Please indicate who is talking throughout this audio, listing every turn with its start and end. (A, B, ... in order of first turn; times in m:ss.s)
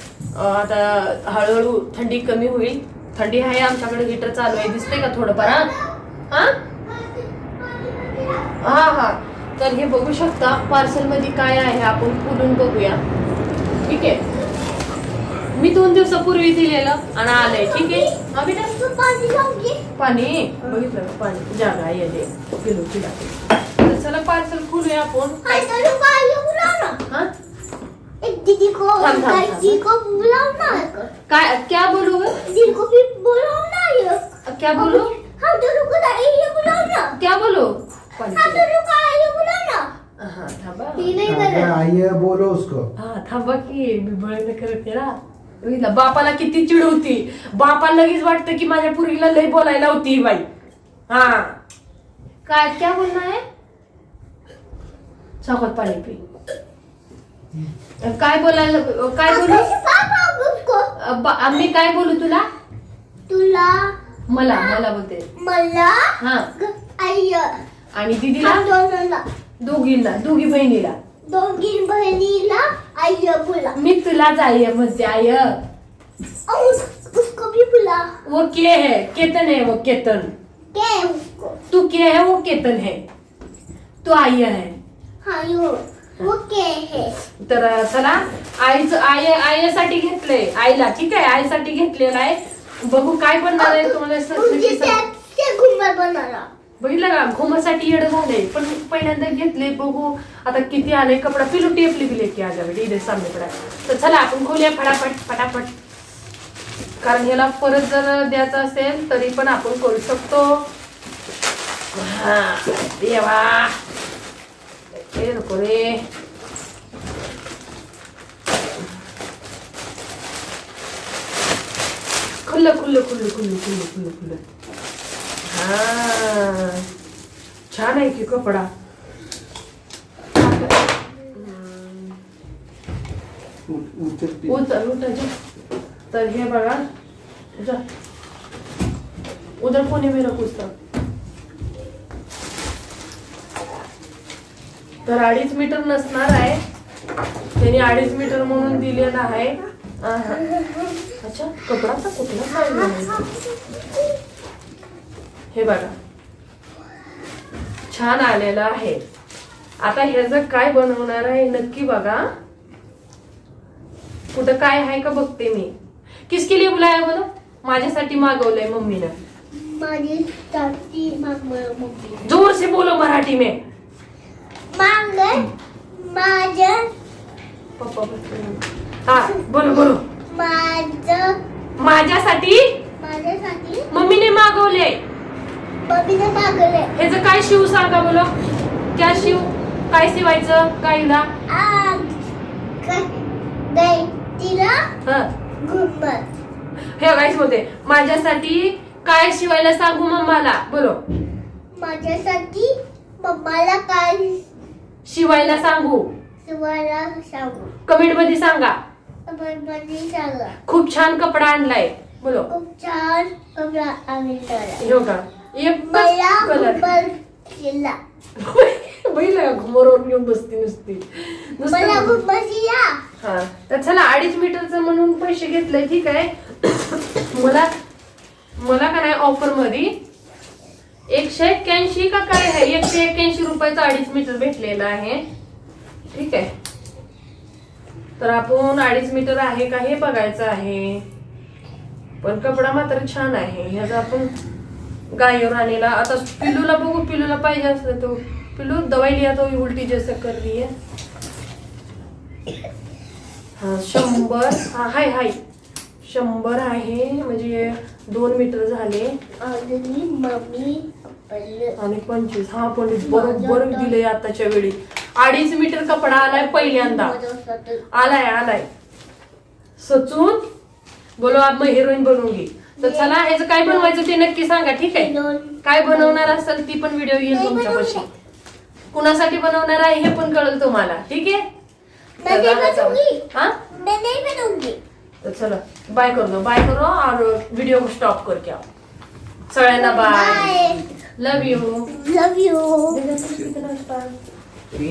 0:00.3-0:05.7 A
0:04.5-0:06.0 B
0:06.3-0:06.6 A
0:06.7-0:08.6 B
0:08.6-0:13.0 A
0:13.8-0:14.2 A
0:15.5-0:18.7 A
0:17.4-0:19.8 B
0:20.0-0:25.8 A
0:25.4-0:27.0 B
0:28.2-0:31.1 B
0:29.0-0:29.8 A
0:31.3-0:32.4 A
0:32.4-0:37.2 B
0:34.5-0:35.1 A
0:37.2-0:38.6 A
0:38.3-0:39.9 B
0:40.2-0:41.1 A
0:41.0-0:41.8 B
0:41.2-0:42.9 C
0:43.0-0:50.4 A
0:51.1-0:51.6 A
0:52.5-0:53.4 A
0:55.4-0:56.2 A
0:58.0-0:59.7 A
0:59.3-1:00.9 B
1:01.0-1:02.4 A
1:03.3-1:03.9 B
1:04.3-1:05.3 A
1:04.5-1:04.8 B
1:05.4-1:07.6 B
1:06.2-1:06.5 A
1:08.0-1:08.6 A
1:08.4-1:09.2 B
1:09.6-1:11.0 A
1:11.3-1:13.8 B
1:13.7-1:15.6 A
1:16.5-1:18.1 B
1:18.3-1:20.3 A
1:20.7-1:21.6 B
1:21.7-1:23.0 A
1:24.0-1:24.7 A
1:25.2-1:27.1 B
1:27.4-1:35.0 A
1:33.6-1:36.5 B
1:36.8-1:45.7 A
1:47.0-1:50.6 A
1:51.9-1:53.8 A
1:54.9-1:56.0 A
2:02.4-2:04.4 A
2:05.5-2:06.9 A
2:07.7-2:08.7 A
2:10.4-2:12.2 A
2:13.7-2:14.6 C
2:14.5-2:15.3 A
2:16.1-2:16.8 A
2:17.6-2:17.8 A
2:19.6-2:20.7 A
2:25.0-2:26.6 A
2:27.6-2:30.5 A
2:30.6-2:31.0 B
2:31.2-2:33.2 A
2:32.5-2:33.8 B
2:35.5-2:35.9 A
2:37.9-2:39.0 A
2:39.8-2:42.2 A
2:44.3-2:45.7 A
2:46.3-2:49.1 A
2:49.5-2:52.3 B
2:52.2-2:53.6 A
2:54.7-2:56.9 B
2:57.8-3:00.0 A
3:00.3-3:01.4 B
3:01.8-3:02.8 A
3:03.0-3:03.9 B
3:03.9-3:05.0 A
3:05.8-3:06.9 B
3:07.0-3:08.3 A
3:09.0-3:11.3 A
3:09.1-3:09.4 B
3:11.5-3:12.2 B
3:12.8-3:14.8 B
3:15.6-3:16.2 B
3:17.0-3:21.0 A
3:21.7-3:24.4 B
3:25.0-3:26.1 A
3:26.4-3:27.7 B
3:27.9-3:28.8 A
3:29.3-3:30.6 B
3:30.7-3:32.5 A
3:32.5-3:34.8 B
3:34.8-3:36.9 A
3:35.8-3:38.0 B
3:38.4-3:42.2 A
3:41.7-3:43.0 B
3:43.2-3:47.7 A
3:48.6-3:49.9 A
3:51.1-3:55.2 A
3:56.1-3:56.5 A
3:58.2-4:01.0 A
4:02.2-4:04.3 A
4:05.1-4:10.7 A
4:13.6-4:15.4 A
4:16.0-4:19.2 A
4:19.4-4:21.8 B
4:21.8-4:27.2 A
4:23.0-4:24.0 B
4:25.9-4:27.8 B
4:27.9-4:28.7 A
4:29.8-4:30.4 A
4:31.2-4:35.1 A
4:32.8-4:34.0 B
4:34.8-4:36.3 B
4:35.6-4:38.0 A
4:37.2-4:38.1 B
4:38.9-4:41.4 A
4:42.2-4:44.8 B
4:42.3-4:43.6 A
4:45.2-4:48.6 A
4:49.5-4:50.5 A
4:49.7-4:50.9 B
4:51.2-4:51.9 A
4:51.9-4:53.0 B
4:52.9-4:54.1 A